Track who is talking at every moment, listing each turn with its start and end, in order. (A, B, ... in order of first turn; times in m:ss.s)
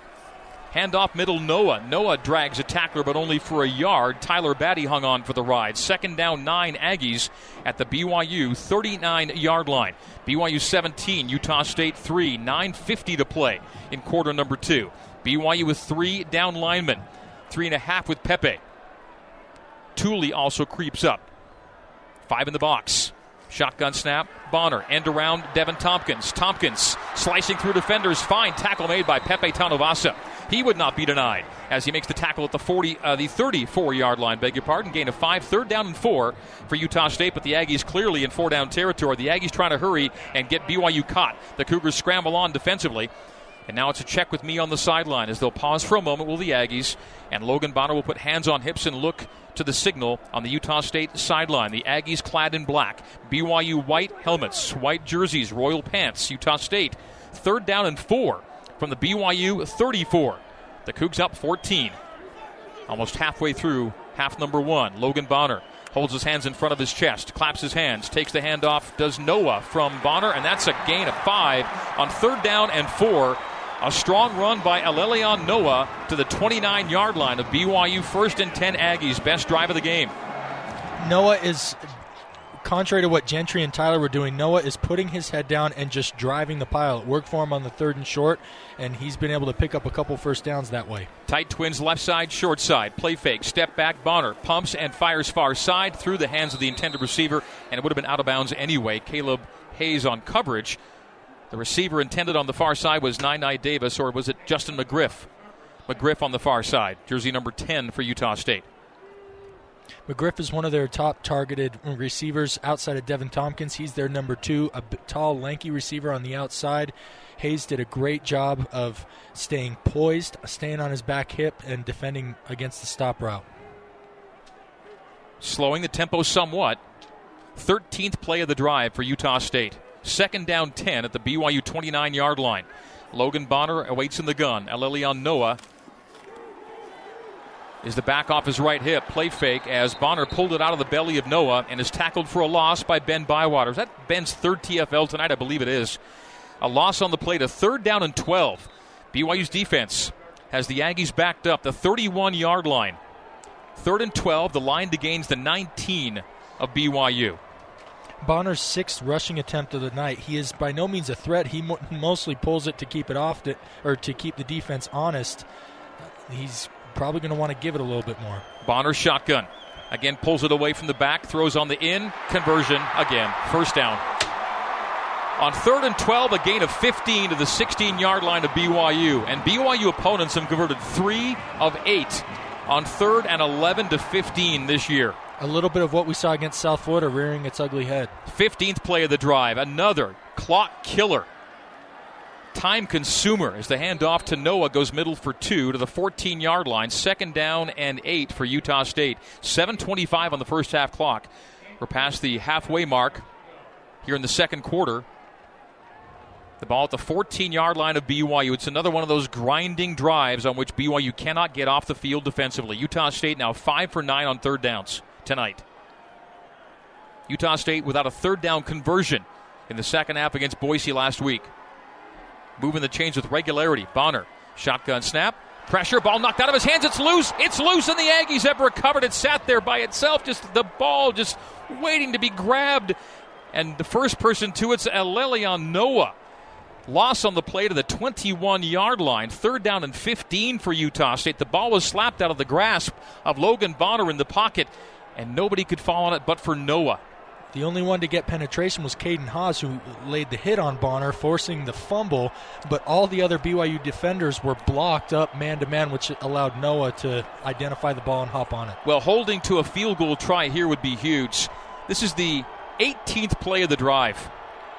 0:00.7-0:18.6 A
0:20.0-0:21.2 A
0:22.3-0:43.1 A
0:43.7-1:02.0 A
1:02.9-1:20.1 A
1:21.0-1:21.9 B
1:22.6-1:31.1 B
1:31.3-1:40.8 A
1:41.5-1:45.3 A
1:45.9-1:48.6 A
1:50.1-2:03.4 B
2:05.4-2:06.8 A
2:07.6-2:15.6 A
2:17.8-2:26.0 A
2:26.6-2:33.0 A
2:33.8-2:37.4 A
2:38.2-2:45.5 B
2:46.0-2:48.4 B
2:48.6-2:54.0 A
2:55.4-3:05.2 A
3:05.4-3:08.1 B
3:08.2-3:11.3 A
3:12.5-3:21.3 A
3:21.8-3:23.2 A
3:24.0-3:25.0 A
3:26.6-3:35.6 A
3:37.3-3:41.5 A
3:42.6-3:53.0 A
3:53.5-3:56.1 A
3:56.9-4:07.0 A
4:07.5-4:18.8 B
4:18.8-4:24.3 A